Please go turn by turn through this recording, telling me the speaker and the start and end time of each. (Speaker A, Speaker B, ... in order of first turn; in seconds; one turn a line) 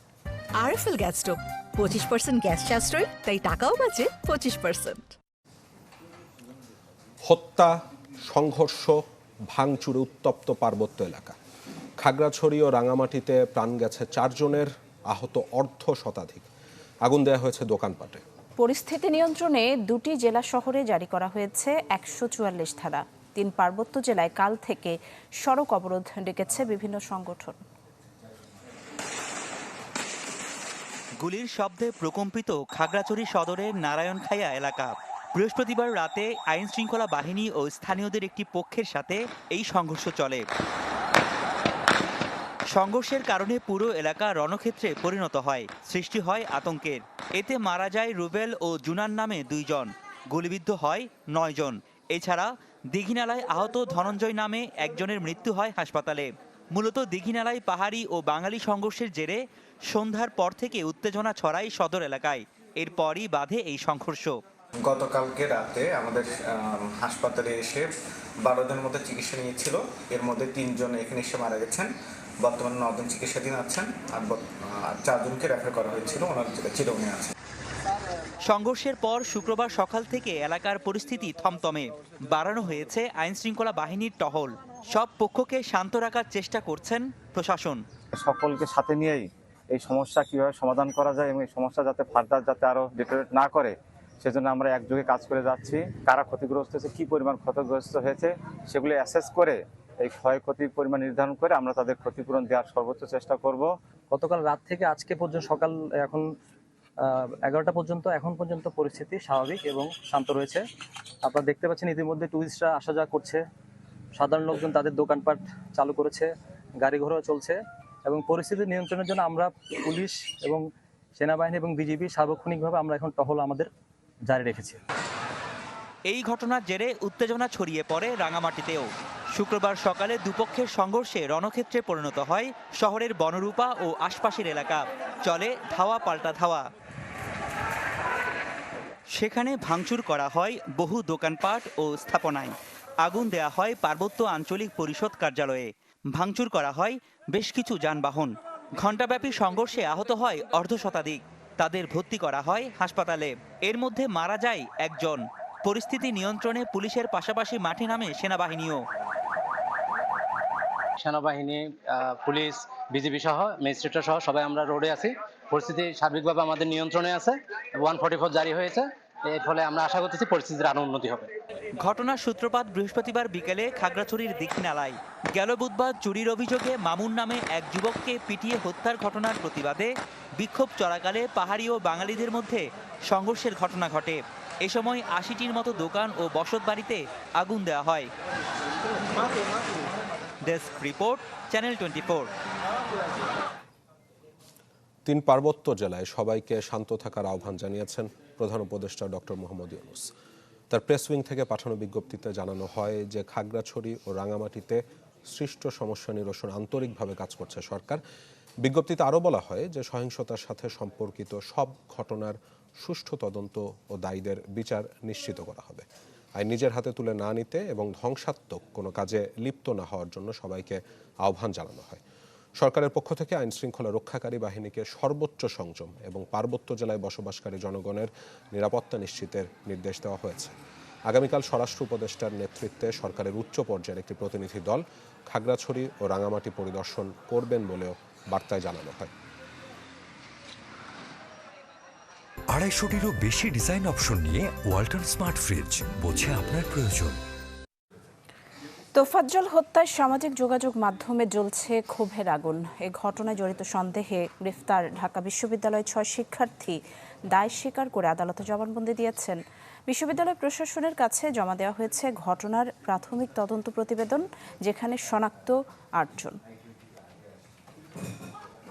Speaker A: 0.6-5.1
Speaker B: 7.2-9.0
Speaker B: 9.5-11.3
Speaker B: 12.0-16.5
Speaker B: 17.0-18.2
Speaker C: 18.6-27.6
Speaker D: 31.2-40.5
Speaker D: 42.7-64.3
Speaker E: 64.8-67.9
Speaker E: 68.4-77.3
Speaker D: 78.4-87.8
Speaker F: 88.2-103.7
Speaker G: 104.1-106.3
Speaker G: 107.0-110.6
Speaker G: 111.2-113.4
Speaker G: 114.2-120.7
Speaker G: 121.2-123.7
Speaker G: 124.3-124.8
Speaker D: 126.1-136.7
Speaker D: 139.1-158.8
Speaker H: 161.0-171.3
Speaker D: 171.8-188.1
Speaker D: 190.5-192.3
Speaker B: 195.1-200.1
Speaker B: 200.7-208.0
Speaker B: 208.6-215.8
Speaker B: 216.4-222.0
Speaker B: 222.6-230.6
Speaker B: 231.1-239.1
Speaker I: 242.5-247.2
Speaker C: 249.0-256.8
Speaker C: 257.3-266.4